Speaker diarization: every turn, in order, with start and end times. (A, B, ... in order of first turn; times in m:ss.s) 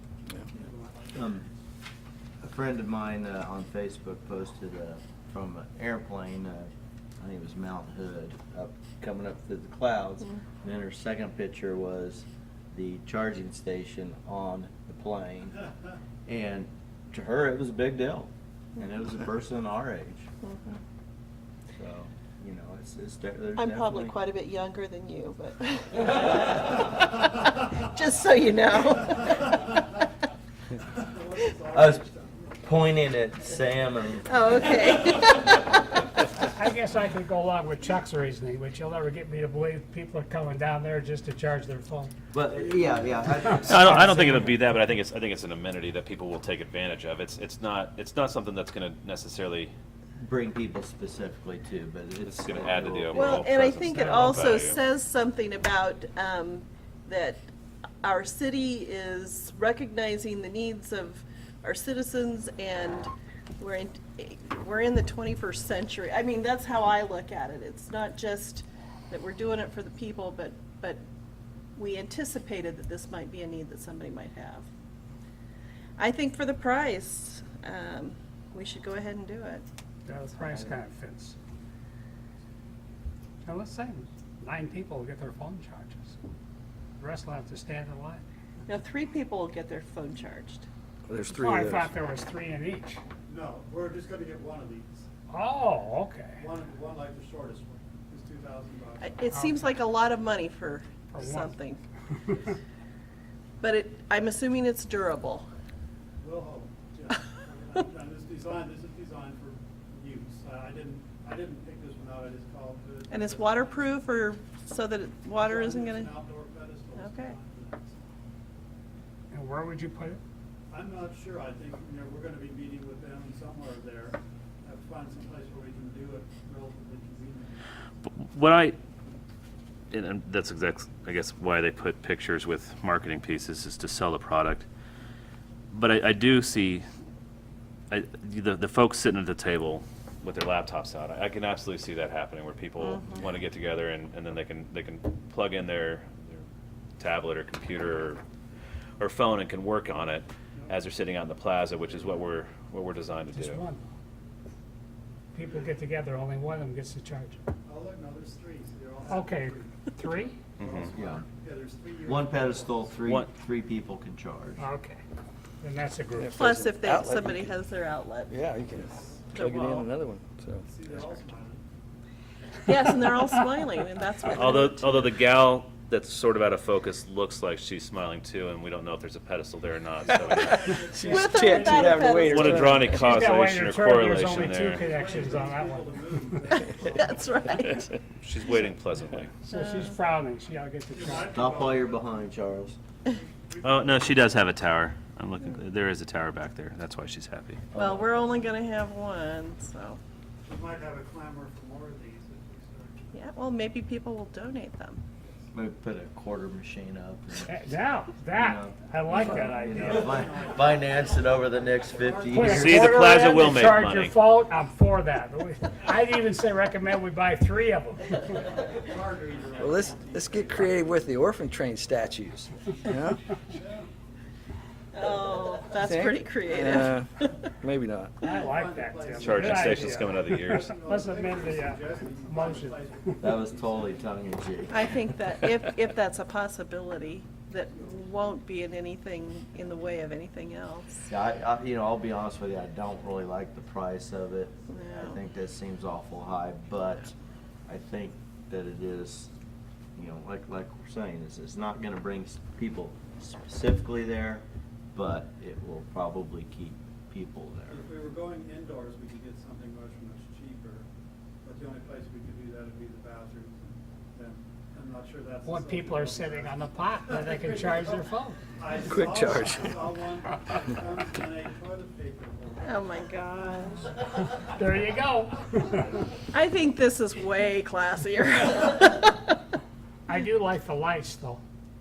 0:00.5-0:01.4 A
0:01.2-0:01.5 B
0:02.4-0:15.6 B
0:16.3-0:20.3 B
0:20.4-0:20.8 C
0:21.7-0:24.2 B
0:23.6-0:29.9 C
0:31.0-0:32.6 A
0:31.7-0:32.0 B
0:32.6-0:34.3 B
0:34.3-0:36.0 C
0:36.4-0:42.1 D
0:42.3-0:44.3 B
0:42.6-0:43.6 A
0:43.6-0:49.7 E
0:43.7-0:44.5 D
0:50.2-0:54.1 B
0:52.2-0:54.8 E
0:53.1-0:57.5 C
0:58.0-1:11.0 C
1:11.8-1:14.7 C
1:16.0-1:19.6 C
1:20.1-1:21.4 D
1:23.4-1:26.2 D
1:27.0-1:28.2 D
1:28.7-1:30.7 C
1:31.1-1:31.9 F
1:31.3-1:33.0 D
1:33.3-1:35.1 A
1:35.3-1:36.4 D
1:36.4-1:39.2 A
1:39.0-1:41.8 C
1:39.3-1:39.7 D
1:41.1-1:41.5 D
1:43.6-1:45.5 C
1:46.2-1:54.1 A
1:53.1-1:56.2 C
1:55.3-1:58.0 A
1:57.0-1:57.4 C
1:59.3-2:00.2 D
2:00.7-2:07.6 A
2:08.1-2:08.8 E
2:09.9-2:14.7 E
2:15.7-2:16.8 E
2:17.9-2:26.4 E
2:22.8-2:23.3 C
2:27.0-2:28.2 E
2:29.0-2:33.6 E
2:31.9-2:32.2 A
2:33.3-2:33.8 D
2:35.3-2:37.4 D
2:37.6-2:43.0 A
2:39.1-2:40.4 D
2:40.6-2:40.9 E
2:40.9-2:41.2 B
2:42.1-2:44.6 B
2:44.6-2:45.0 D
2:45.6-2:46.4 D
2:46.2-2:47.5 F
2:46.3-2:48.4 C
2:48.3-2:50.7 F
2:48.7-2:49.9 A
2:49.3-2:49.9 C
2:50.6-2:51.7 A
2:52.7-2:55.1 C
2:54.3-3:00.8 E
3:00.0-3:01.9 A
3:00.2-3:03.1 F
3:01.0-3:02.8 C
3:02.2-3:05.2 E
3:02.9-3:06.4 D
3:04.4-3:07.6 A
3:06.5-3:07.9 C
3:08.2-3:09.3 E
3:09.4-3:11.4 D
3:09.5-3:10.0 C
3:10.9-3:12.3 A
3:11.2-3:12.8 B
3:13.1-3:14.4 A
3:13.6-3:17.6 E
3:17.7-3:18.5 B
3:17.8-3:20.0 C
3:20.4-3:23.2 A
3:23.1-3:25.0 C
3:25.2-3:25.5 A
3:25.5-3:27.7 B
3:27.4-3:30.3 D
3:28.3-3:33.2 B
3:29.6-3:32.7 A
3:32.3-3:38.5 D
3:32.4-3:34.2 E
3:38.5-3:41.1 A
3:39.6-3:43.2 F
3:42.6-3:43.9 A
3:45.0-3:47.5 C
3:45.8-3:47.1 F
3:47.6-3:48.2 F
3:48.2-3:53.2 D
3:48.2-3:54.3 A
3:49.2-3:50.8 E
3:53.2-3:54.9 B
3:54.7-4:01.0 C
3:57.8-3:58.0 A
4:01.1-4:07.1 B
4:04.7-4:05.2 C
4:06.8-4:07.1 C
4:07.7-4:09.3 B
4:10.0-4:17.9 B
4:17.7-4:20.9 A
4:21.4-4:33.0 A
4:25.5-4:28.4 D
4:28.8-4:30.0 F
4:32.6-4:34.0 C
4:34.5-4:35.9 D
4:36.3-4:39.4 C
4:40.1-4:41.4 D